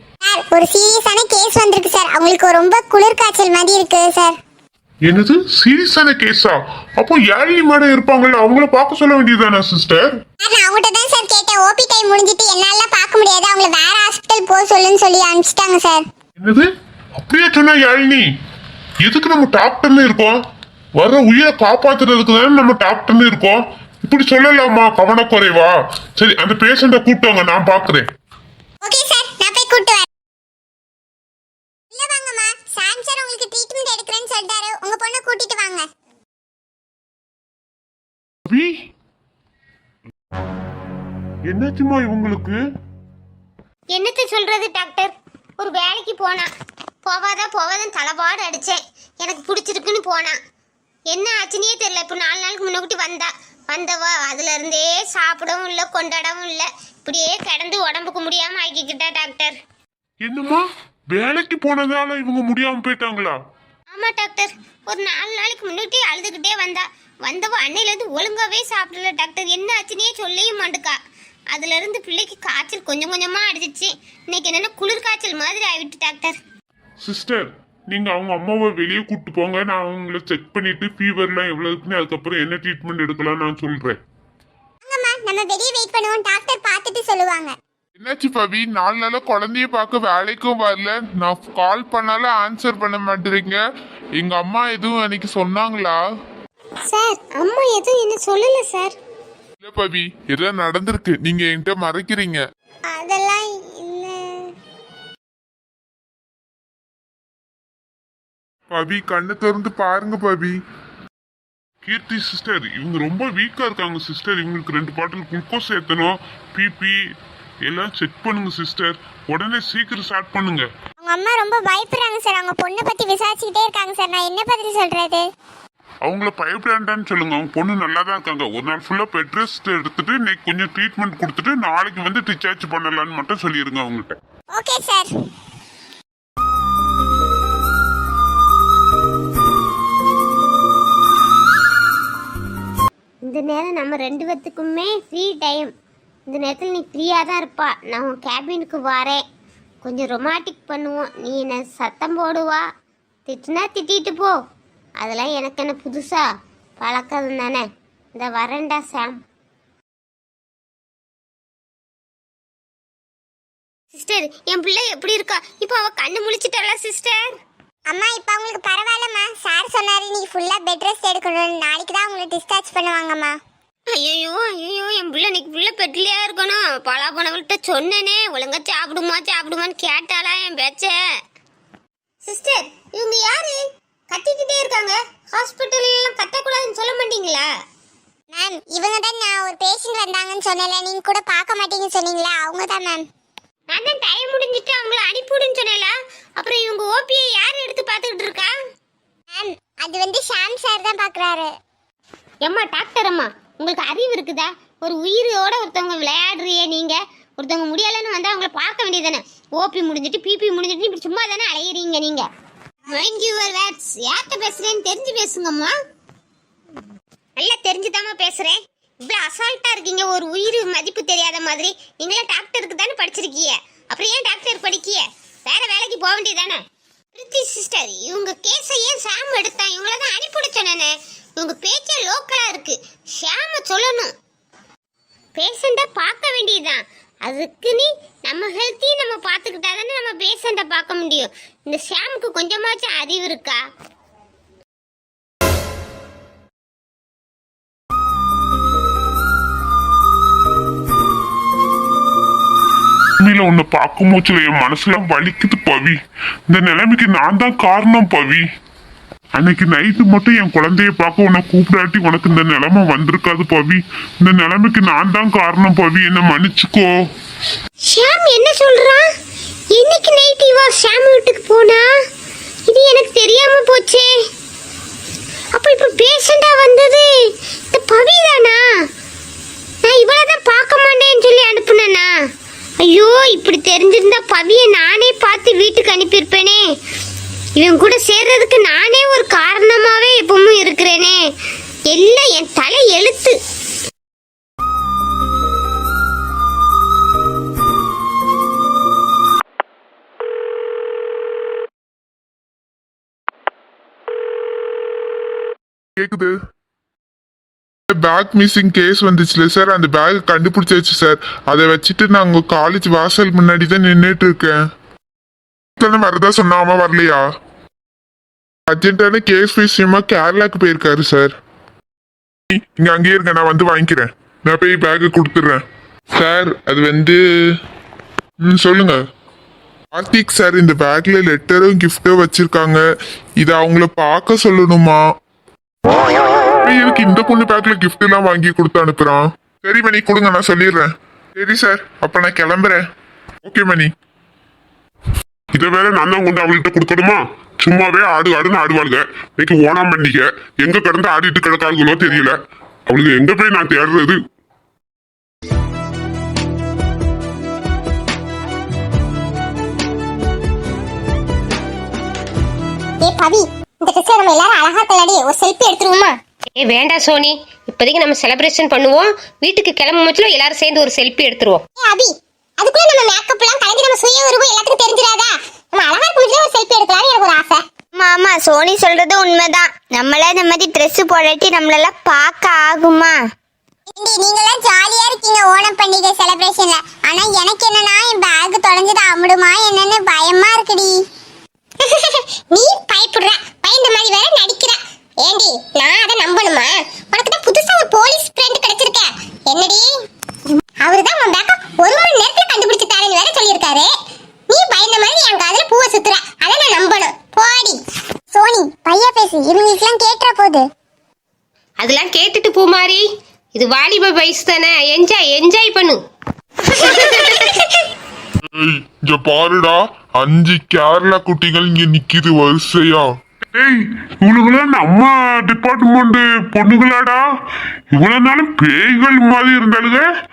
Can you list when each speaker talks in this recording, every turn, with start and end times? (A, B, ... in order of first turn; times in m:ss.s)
0:00.2-0:04.4 A
0:05.0-0:10.1 B
0:10.4-0:16.0 A
0:16.4-0:18.3 B
0:19.0-0:20.3 B
0:21.0-0:28.0 B
0:28.8-0:30.1 A
0:31.9-0:35.9 A
0:38.5-0:38.7 B
0:41.5-0:42.6 B
0:43.9-0:46.5 C
0:47.0-0:50.4 C
0:51.1-0:59.6 C
1:00.2-1:03.4 B
1:03.9-1:11.0 C
1:11.5-1:16.4 C
1:17.0-1:24.0 B
1:24.8-1:27.6 A
1:28.0-1:33.6 D
1:34.2-1:36.0 D
1:36.9-1:39.0 C
1:39.6-1:42.4 D
1:42.9-1:44.5 A
1:48.7-1:50.6 D
1:51.8-1:57.0 B
1:57.6-2:00.7 B
2:01.0-2:05.3 A
2:06.0-2:14.2 B
2:14.5-2:15.1 A
2:23.2-2:25.7 C
2:26.3-2:29.2 C
2:29.8-2:32.6 C
2:33.3-2:34.3 C
2:35.0-2:36.2 C
2:36.8-2:39.2 C
2:43.9-2:47.2 C
2:47.9-2:53.4 A
2:53.9-3:01.0 C
3:02.2-3:07.4 C
3:08.3-3:13.0 A
3:13.7-3:18.5 C
3:19.3-3:21.5 A
3:22.4-3:32.2 C
3:32.9-3:35.7 C
3:37.4-3:46.6 C
3:47.1-3:54.1 C
3:55.4-4:03.6 C
4:13.2-4:16.0 B
4:16.5-4:18.4 B
4:19.4-4:26.9 B
4:27.9-4:29.1 C
4:29.7-4:31.8 C
4:32.7-4:34.1 C
4:35.5-4:37.1 C
4:37.7-4:38.6 C
4:39.8-4:42.1 C
4:42.8-4:46.6 C
4:47.6-4:51.2 C
4:51.9-4:53.4 C
5:06.0-5:06.3 D
5:07.9-5:14.6 D
5:15.8-5:17.2 D
5:18.7-5:21.3 D
5:22.5-5:25.6 D
5:26.1-5:27.2 D
5:28.4-5:29.0 D
5:29.9-5:32.8 D
5:33.4-5:35.0 D
5:36.6-5:42.8 D
5:43.4-5:43.9 D
5:45.5-5:52.4 B
5:52.9-5:54.2 B
6:03.0-6:06.2 A
6:06.6-6:11.6 E
6:11.8-6:17.6 A
6:17.9-6:23.2 F
6:23.9-6:31.0 A
6:31.8-6:39.9 A
6:40.8-6:43.9 A
6:44.5-6:47.8 A
6:48.3-6:50.6 A
6:51.8-6:56.0 E
6:56.8-6:57.6 E
6:56.8-6:57.6 A
6:58.5-7:03.1 D
7:03.5-7:07.2 B
7:07.9-7:10.0 B